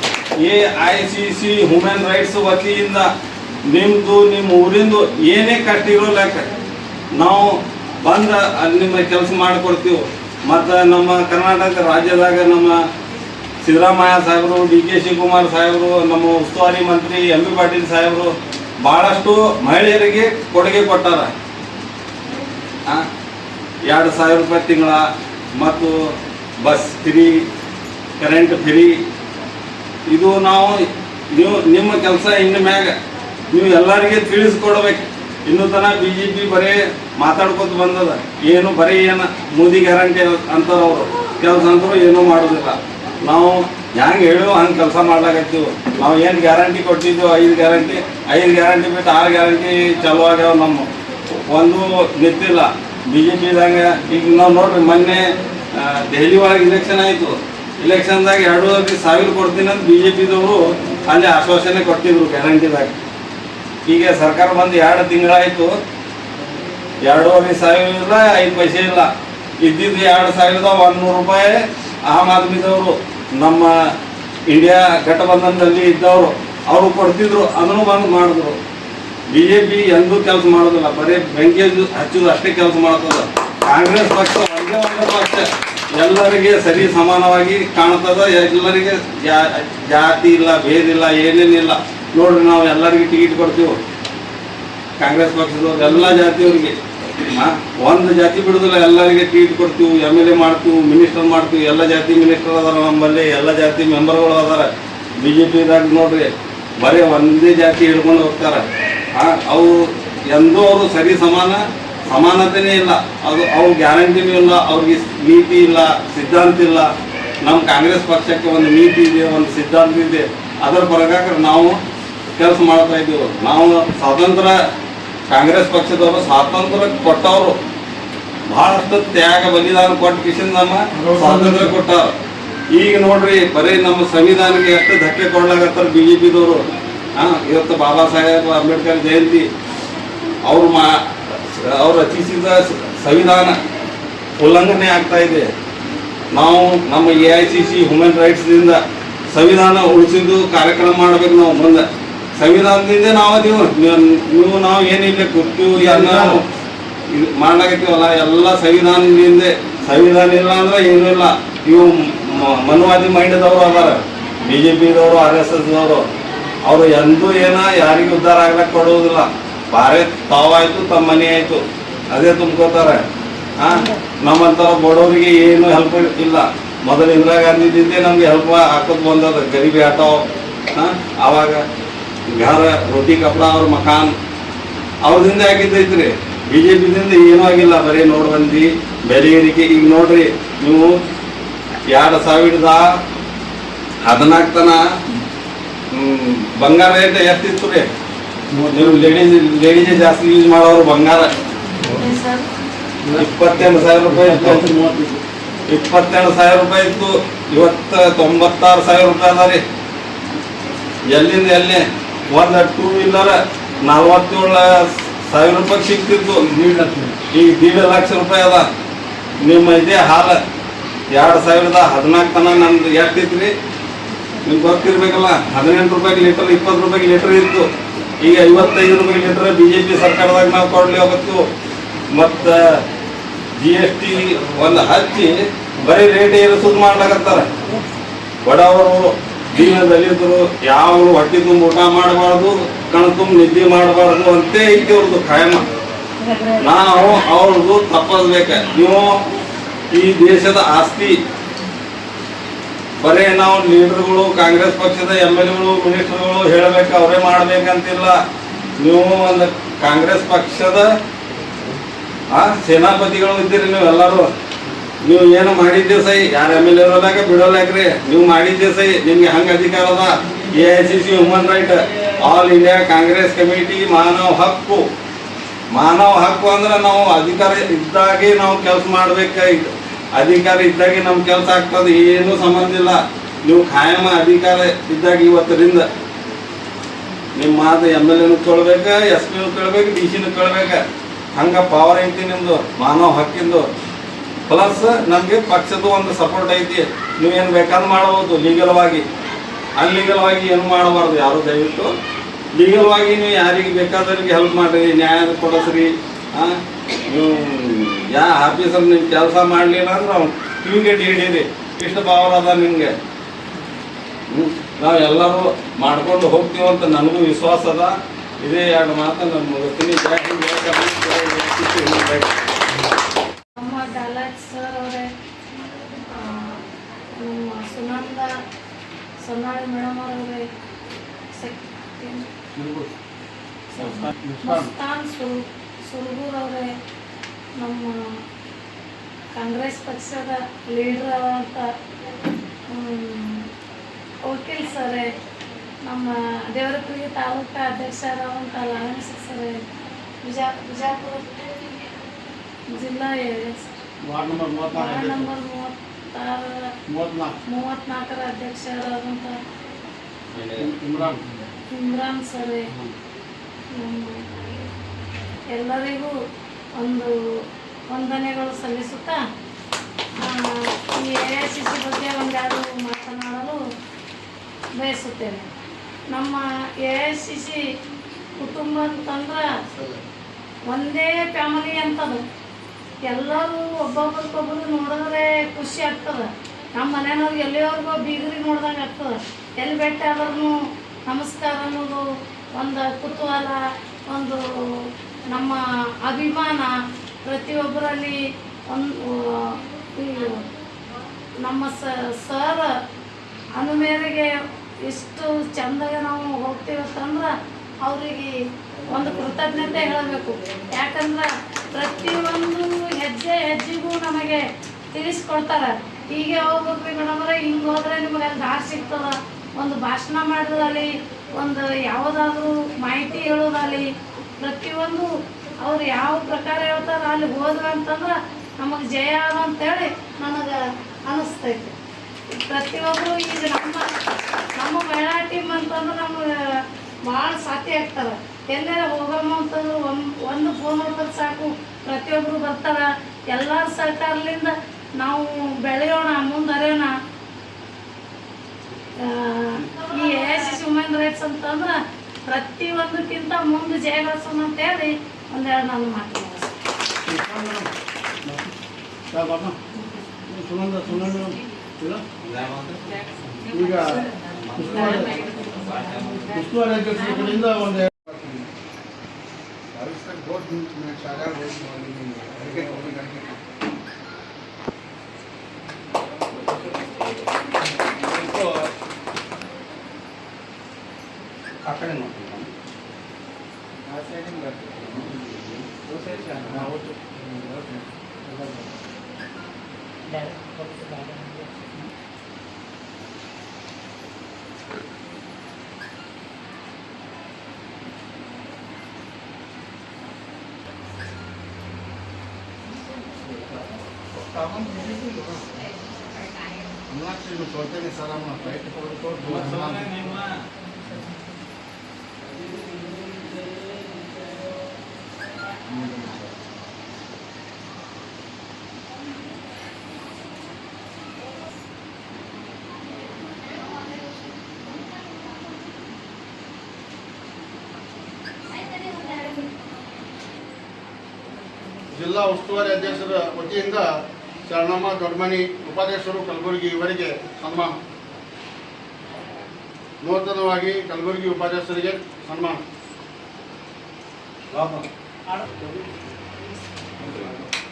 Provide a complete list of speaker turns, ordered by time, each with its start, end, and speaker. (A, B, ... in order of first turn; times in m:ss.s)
0:00.4-0:03.1 A
0:03.7-0:06.5 A
0:07.2-0:12.8 A
0:13.6-0:21.3 A
0:23.8-0:25.0 A
0:25.6-0:25.9 A
0:26.6-0:27.4 A
0:28.2-0:29.0 A
0:30.1-0:30.8 A
0:31.3-0:32.9 A
0:33.5-0:50.9 A
0:51.5-1:03.0 A
1:03.9-1:05.7 A
1:07.0-1:09.1 A
1:09.6-1:13.7 A
1:14.5-1:18.6 A
1:19.3-1:25.5 A
1:26.0-1:33.8 A
1:35.0-1:49.8 A
1:50.3-1:56.9 A
1:57.4-2:01.8 A
2:02.4-2:04.6 A
2:05.3-2:07.6 A
2:08.5-2:12.1 A
2:10.9-2:11.8 B
2:12.7-2:16.6 A
2:17.2-2:19.5 A
2:20.4-2:23.6 A
2:24.4-2:25.5 A
2:26.3-2:28.8 A
2:29.3-2:36.4 A
2:35.7-2:36.4 B
2:37.1-2:46.0 A
2:46.6-2:53.0 A
2:53.6-3:01.6 A
2:53.7-2:54.0 C
3:02.4-3:04.1 A
3:05.0-3:11.0 A
3:11.9-3:12.8 A
3:14.0-3:14.8 A
3:15.9-3:17.9 A
3:18.5-3:19.2 B
3:18.7-3:21.3 A
3:21.9-3:22.5 C
3:23.0-3:25.2 B
3:23.2-3:24.7 A
3:25.7-3:29.6 A
3:31.1-3:36.4 A
3:36.4-3:37.2 B
3:37.3-3:38.7 A
3:39.4-3:40.4 A
3:41.1-3:43.5 A
3:44.5-3:47.7 A
3:48.2-3:51.4 A
3:52.1-3:52.8 A
3:53.6-3:57.5 A
3:58.4-4:05.7 A
4:06.6-4:09.2 A
4:09.9-4:11.2 A
4:13.0-4:18.2 A
4:18.8-4:20.9 A
4:22.3-4:24.3 A
4:25.0-4:34.8 A
4:35.7-4:45.9 A
4:47.4-4:50.8 A
4:51.3-4:53.7 A
4:54.5-4:59.1 A
4:59.8-5:01.9 A
5:02.6-5:06.6 A
5:07.1-5:12.9 A
5:14.3-5:22.3 A
5:23.6-5:25.1 C
5:26.1-5:26.6 C
5:27.2-5:28.3 C
5:29.2-5:30.4 C
5:31.3-5:32.2 C
5:32.5-5:32.9 B
5:33.8-5:34.1 A
5:33.8-5:34.7 B
5:34.4-5:36.7 C
5:37.6-5:38.0 C
5:39.3-5:41.7 C
5:42.7-5:43.5 C
5:44.2-5:45.1 C
5:45.8-5:49.6 C
5:50.2-5:51.4 C
5:52.7-5:53.7 C
5:54.0-5:55.3 B
5:54.7-5:56.6 C
5:56.9-5:57.4 B
5:57.5-5:59.4 C
6:00.3-6:00.7 A
6:00.6-6:01.2 B
6:01.7-6:02.7 C
6:03.7-6:04.2 C
6:05.5-6:06.1 C
6:06.8-6:07.1 C
6:07.9-6:09.2 C
6:10.2-6:13.6 C
6:14.8-6:15.5 C
6:16.1-6:17.6 C
6:18.4-6:19.5 C
6:19.6-6:20.0 B
6:20.7-6:22.2 C
6:23.0-6:30.5 C
6:31.1-6:32.0 C
6:32.5-6:33.6 C
6:34.1-6:36.7 C
6:37.2-6:38.2 C
6:38.7-6:40.4 C
6:41.4-6:42.7 C
6:43.6-6:44.3 C
6:44.8-6:47.3 C
6:47.8-6:48.3 C
6:48.9-7:05.1 C
7:05.6-7:11.8 C
7:12.3-7:13.9 C
7:14.6-7:16.3 C
7:17.0-7:26.9 C
7:29.1-7:36.5 C
7:37.0-7:37.7 B
7:38.2-7:38.5 B
7:39.1-7:39.6 B
7:40.3-7:42.0 B
7:42.2-7:43.1 A
7:43.5-7:45.2 B
7:44.4-7:46.4 A
7:46.3-7:48.5 B
7:49.7-7:53.4 B
7:58.1-7:58.6 B
8:01.6-8:02.4 B
8:04.0-8:04.9 B
8:06.4-8:07.8 B
8:08.3-8:08.6 B
8:24.1-8:25.4 B
8:26.9-8:30.0 B
8:29.2-8:30.4 A
8:35.8-8:36.2 B
8:51.9-8:53.9 B
8:54.5-8:57.8 B
9:00.0-9:02.6 B
9:04.5-9:04.8 A